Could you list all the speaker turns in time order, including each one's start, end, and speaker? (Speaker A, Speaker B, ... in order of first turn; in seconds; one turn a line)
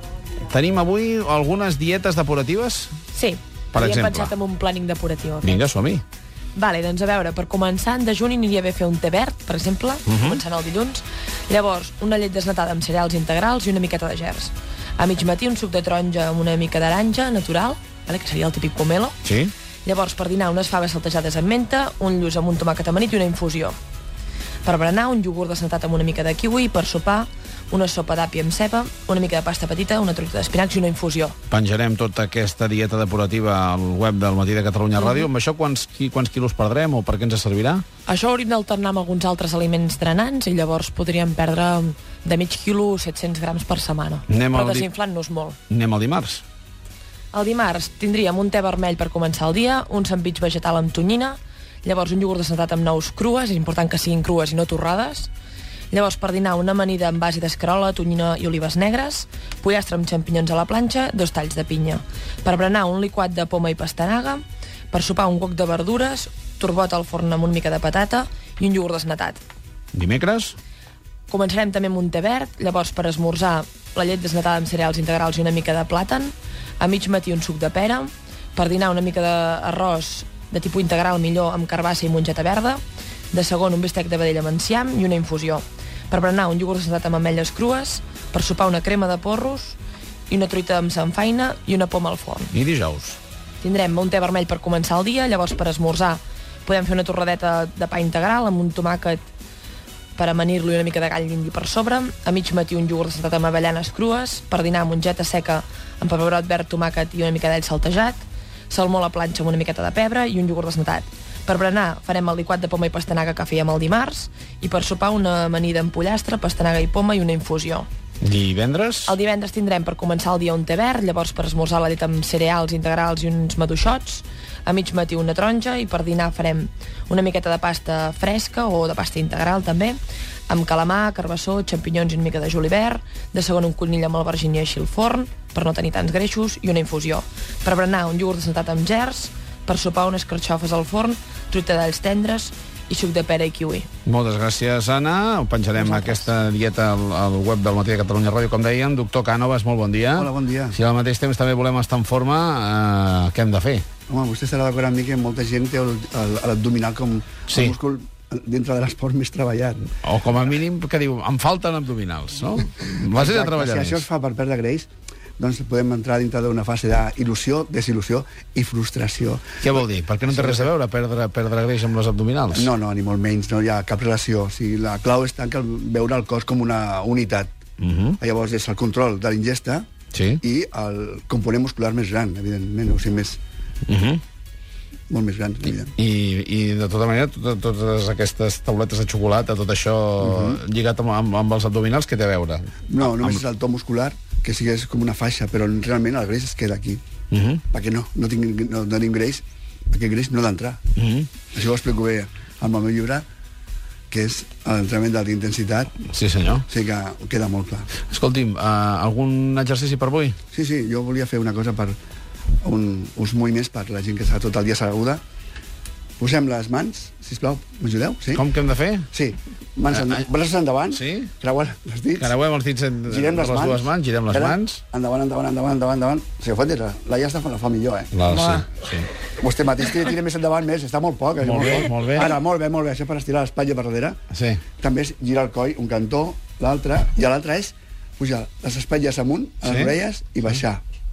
Speaker A: 0.4-2.9
Speaker B: 3.1-5.6
Speaker A: 3.7-4.3
Speaker A: 5.4-6.0
Speaker B: 6.5-19.2
Speaker A: 10.1-10.4
Speaker A: 19.2-19.5
Speaker B: 19.8-23.8
Speaker B: 24.6-31.4
Speaker A: 31.5-37.8
Speaker B: 38.1-45.6
Speaker A: 44.3-44.9
Speaker A: 45.7-46.4
Speaker B: 47.3-55.3
Speaker B: 55.9-69.4
Speaker A: 69.9-70.6
Speaker B: 71.3-82.8
Speaker B: 83.3-89.8
Speaker B: 90.3-92.5
Speaker A: 92.5-93.2
Speaker B: 93.6-99.3
Speaker B: 100.2-117.9
Speaker A: 118.2-119.1
Speaker B: 119.1-143.9
Speaker A: 144.1-153.8
Speaker C: 150.2-150.8
Speaker C: 154.1-159.9
Speaker A: 157.5-157.8
Speaker A: 160.0-164.0
Speaker C: 163.1-169.6
Speaker A: 169.6-172.7
Speaker C: 170.3-170.7
Speaker C: 172.5-177.5
Speaker A: 177.8-178.2
Speaker C: 178.2-179.8
Speaker A: 180.1-180.4
Speaker C: 180.4-183.4
Speaker A: 183.9-184.2
Speaker C: 185.1-185.9
Speaker A: 185.9-193.4
Speaker C: 190.2-190.6
Speaker C: 192.9-197.0
Speaker A: 197.3-197.6
Speaker C: 197.7-200.8
Speaker A: 200.9-201.3
Speaker C: 201.5-203.2
Speaker C: 204.1-206.0
Speaker A: 206.1-206.7
Speaker C: 206.7-207.9
Speaker A: 208.1-210.3
Speaker C: 210.5-212.0
Speaker C: 212.6-215.2
Speaker C: 216.2-218.4
Speaker A: 218.3-219.1
Speaker C: 219.1-222.3
Speaker A: 220.9-221.3
Speaker A: 222.2-224.8
Speaker C: 223.1-228.7
Speaker A: 228.1-229.1
Speaker C: 229.3-234.2
Speaker A: 231.4-232.3
Speaker A: 234.3-234.6
Speaker C: 234.8-240.8
Speaker A: 239.6-239.9